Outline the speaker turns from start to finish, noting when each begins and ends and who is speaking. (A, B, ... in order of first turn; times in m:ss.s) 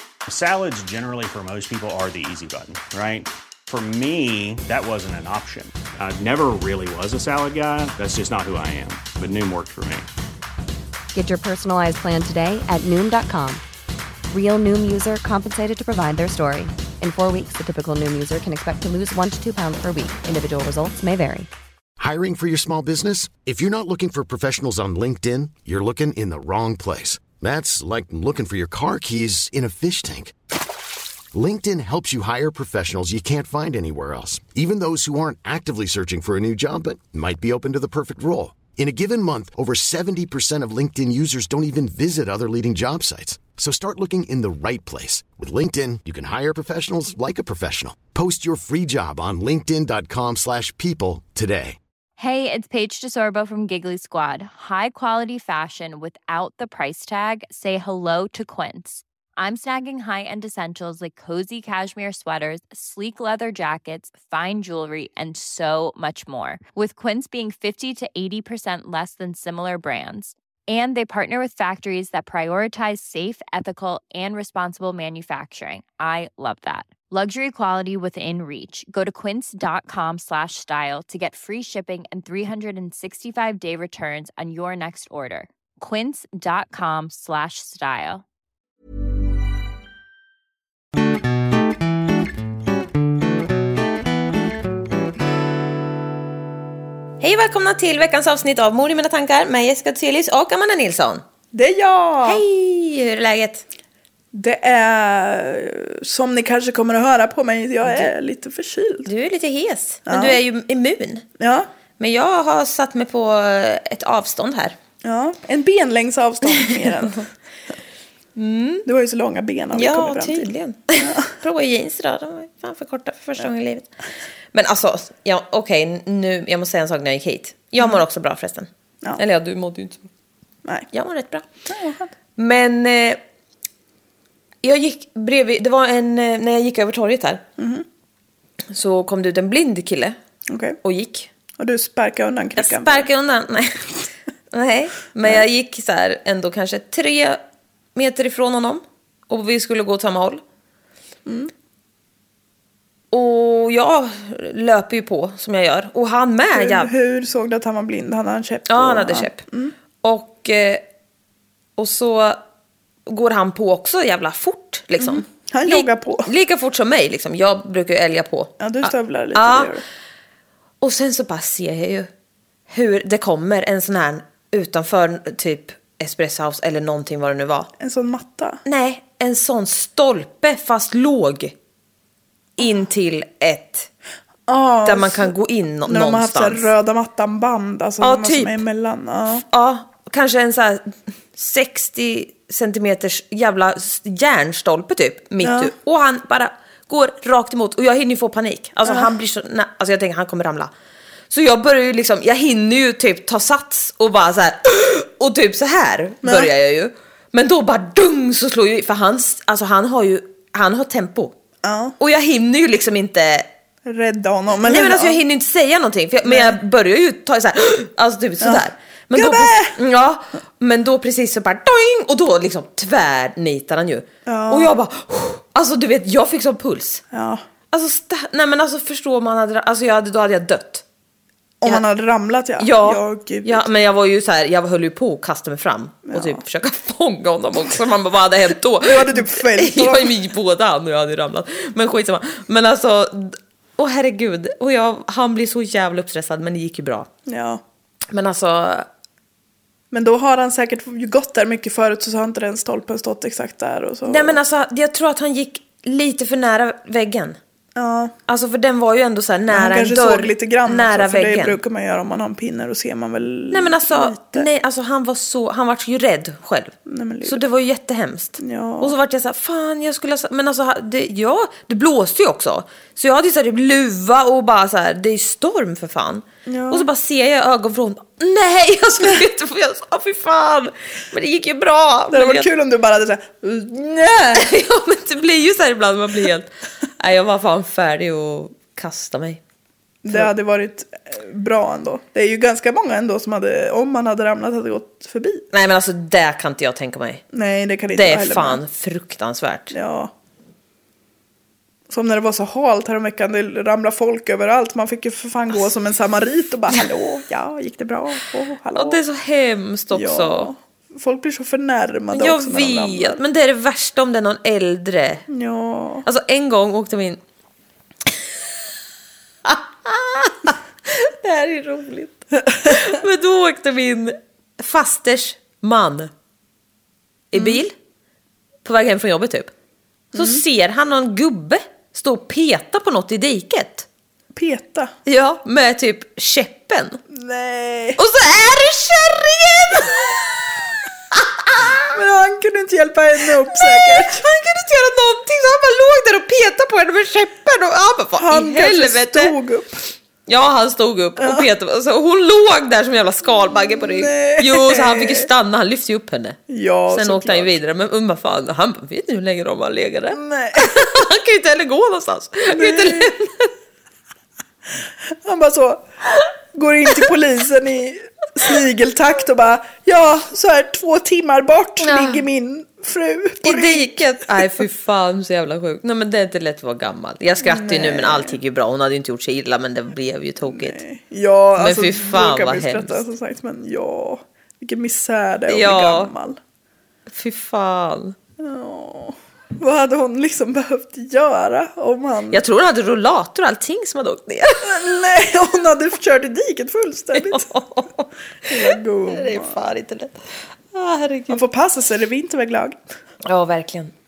0:00.3-0:10.1 A
0:11.1-0:13.6 B
0:14.3-0:21.5 B
0:22.0-0:30.3 C
0:31.3-0:51.8 C
0:52.2-1:28.2 D
1:37.2-1:41.2 E
1:41.5-1:42.4 F
1:42.2-1:43.6 E
1:44.3-1:49.1 F
1:47.8-1:48.1 E
1:49.1-1:51.2 E
1:50.1-1:50.4 F
1:51.4-1:51.7 F
1:52.0-1:54.8 E
1:55.0-1:57.3 F
1:58.4-1:58.9 E
1:58.8-2:01.4 F
1:59.7-2:03.9 E
2:04.5-2:10.1 E
2:10.9-2:11.5 E
2:11.7-2:12.1 F
2:12.4-2:13.2 E
2:14.6-2:17.4 E
2:17.6-2:17.9 F
2:18.7-2:20.2 E
2:20.5-2:20.8 F
2:20.8-2:21.3 E
2:21.6-2:23.1 F
2:22.6-2:23.9 E
2:24.5-2:27.4 E
2:28.0-2:30.4 E
2:31.3-2:31.5 F
2:33.1-2:36.9 E
2:36.5-2:39.7 F
2:38.7-2:39.4 E
2:40.0-2:40.8 E
2:41.8-2:42.4 E
2:43.1-2:49.7 E
2:45.0-2:46.3 F
2:48.6-2:49.8 F
2:50.8-2:52.1 E
2:52.7-2:57.7 E
2:57.8-2:58.6 F
2:58.6-3:01.5 E
3:02.6-3:03.9 E
3:04.5-3:05.4 F
3:04.9-3:06.7 E
3:05.9-3:09.4 F
3:08.0-3:08.6 E
3:09.5-3:20.7 E
3:15.4-3:15.7 F
3:21.3-3:31.3 E
3:26.2-3:26.5 F
3:31.6-3:32.0 F
3:32.0-3:33.5 E
3:33.8-3:35.2 F
3:34.6-3:47.0 E
3:36.2-3:36.6 F
3:38.4-3:39.8 F
3:44.3-3:44.7 F
3:47.1-3:47.4 F
3:47.7-3:50.8 E
3:51.6-3:53.6 F
3:52.6-4:07.1 E
3:56.1-3:56.4 F
3:58.8-4:00.1 F
4:07.3-4:07.6 F
4:08.1-4:08.9 E
4:09.9-4:14.4 F
4:14.1-4:17.4 E
4:17.8-4:18.2 F
4:18.3-4:21.6 E
4:19.5-4:24.5 F
4:23.5-4:42.5 E
4:26.9-4:27.4 F
4:28.4-4:28.9 F
4:36.5-4:36.9 F
4:42.1-4:44.5 F
4:44.3-4:49.4 E
4:50.0-4:55.5 F
4:55.5-4:57.2 E
4:57.3-4:58.6 F
4:58.0-4:59.7 E
4:59.7-5:00.1 F
5:01.9-5:09.0 F
5:08.8-5:10.5 E
5:09.9-5:13.2 F
5:12.1-5:15.2 E
5:15.3-5:16.0 F
5:16.0-5:17.2 E
5:19.5-5:26.1 E
5:27.3-5:27.7 E
5:27.4-5:27.6 F
5:28.6-5:29.5 E
5:30.2-5:33.9 E
5:34.4-5:34.9 F
5:35.0-5:37.0 E
5:37.1-5:38.0 F
5:38.0-5:40.1 E
5:41.1-5:42.0 E
5:41.9-5:44.2 F
5:43.5-5:49.3 E
5:48.2-5:49.8 F
5:50.3-5:56.4 E
5:51.2-5:51.4 F
5:53.8-5:55.3 F
5:56.5-5:57.5 F
5:56.9-6:03.5 E
6:00.1-6:01.0 F
6:02.5-6:03.1 F
6:05.1-6:14.5 F
6:11.8-6:12.2 E
6:13.4-6:20.8 E
6:17.4-6:18.4 F
6:20.5-6:26.4 F
6:21.6-6:23.0 E
6:25.5-6:26.1 E
6:27.1-6:28.2 E
6:28.4-6:32.4 F
6:32.3-6:34.8 E
6:34.6-6:37.6 F
6:37.2-6:38.0 E
6:38.5-6:39.6 F
6:38.7-6:40.2 E
6:40.7-6:41.4 E
6:41.3-6:42.8 F
6:43.2-6:43.9 E